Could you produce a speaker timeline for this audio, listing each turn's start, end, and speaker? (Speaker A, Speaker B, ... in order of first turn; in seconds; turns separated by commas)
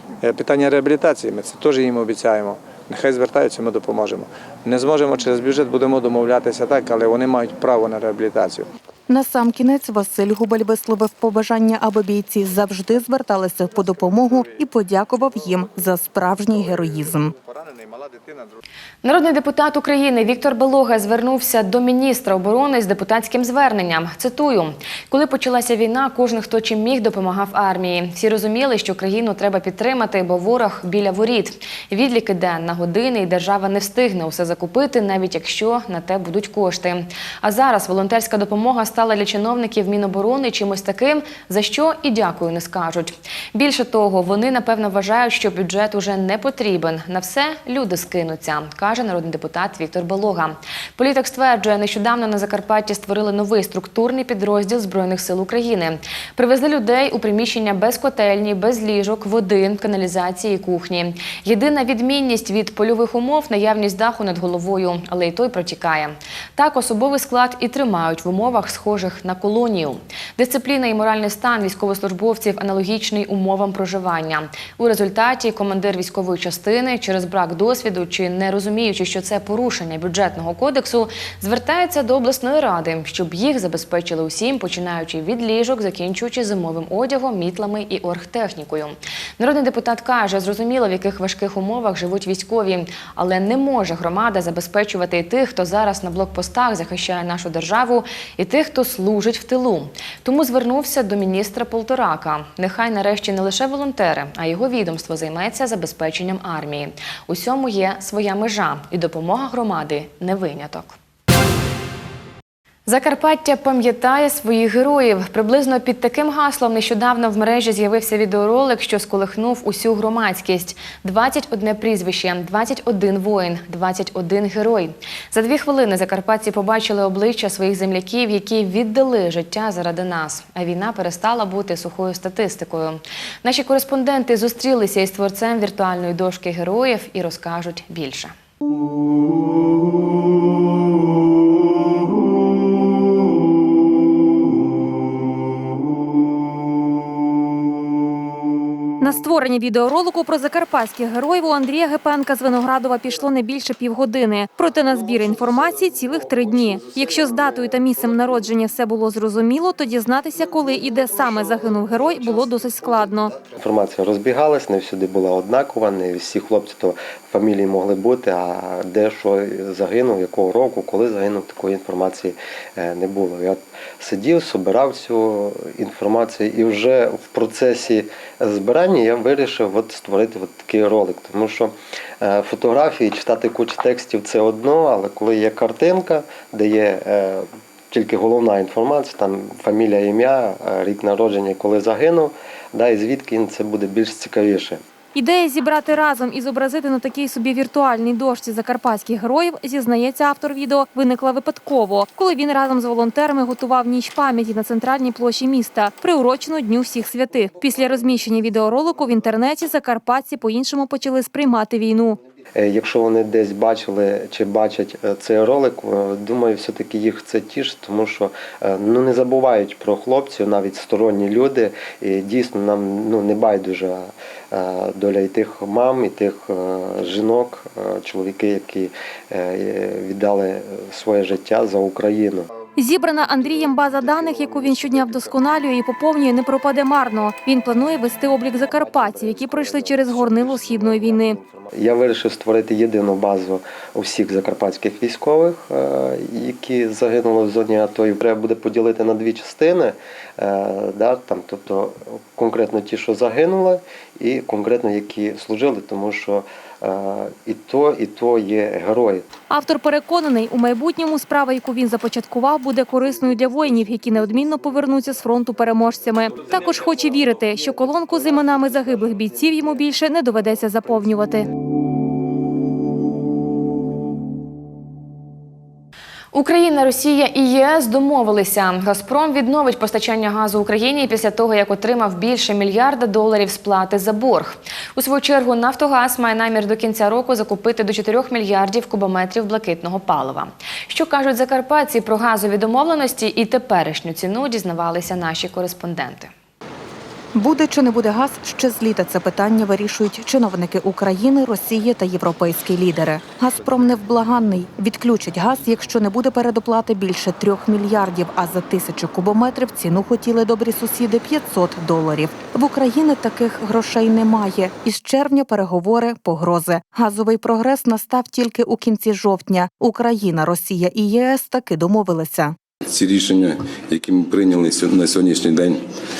Speaker A: 0.2-8.7, Speaker B: 9.1-17.3, Speaker C: 19.0-111.0, Speaker C: 112.8-138.3, Speaker D: 149.0-163.3, Speaker E: 163.5-194.8, Speaker D: 195.1-212.2, Speaker E: 212.6-232.5, Speaker D: 232.8-241.4, Speaker E: 241.7-259.2, Speaker D: 259.5-271.5, Speaker C: 276.3-296.3, Speaker B: 297.3-322.6, Speaker F: 322.9-325.8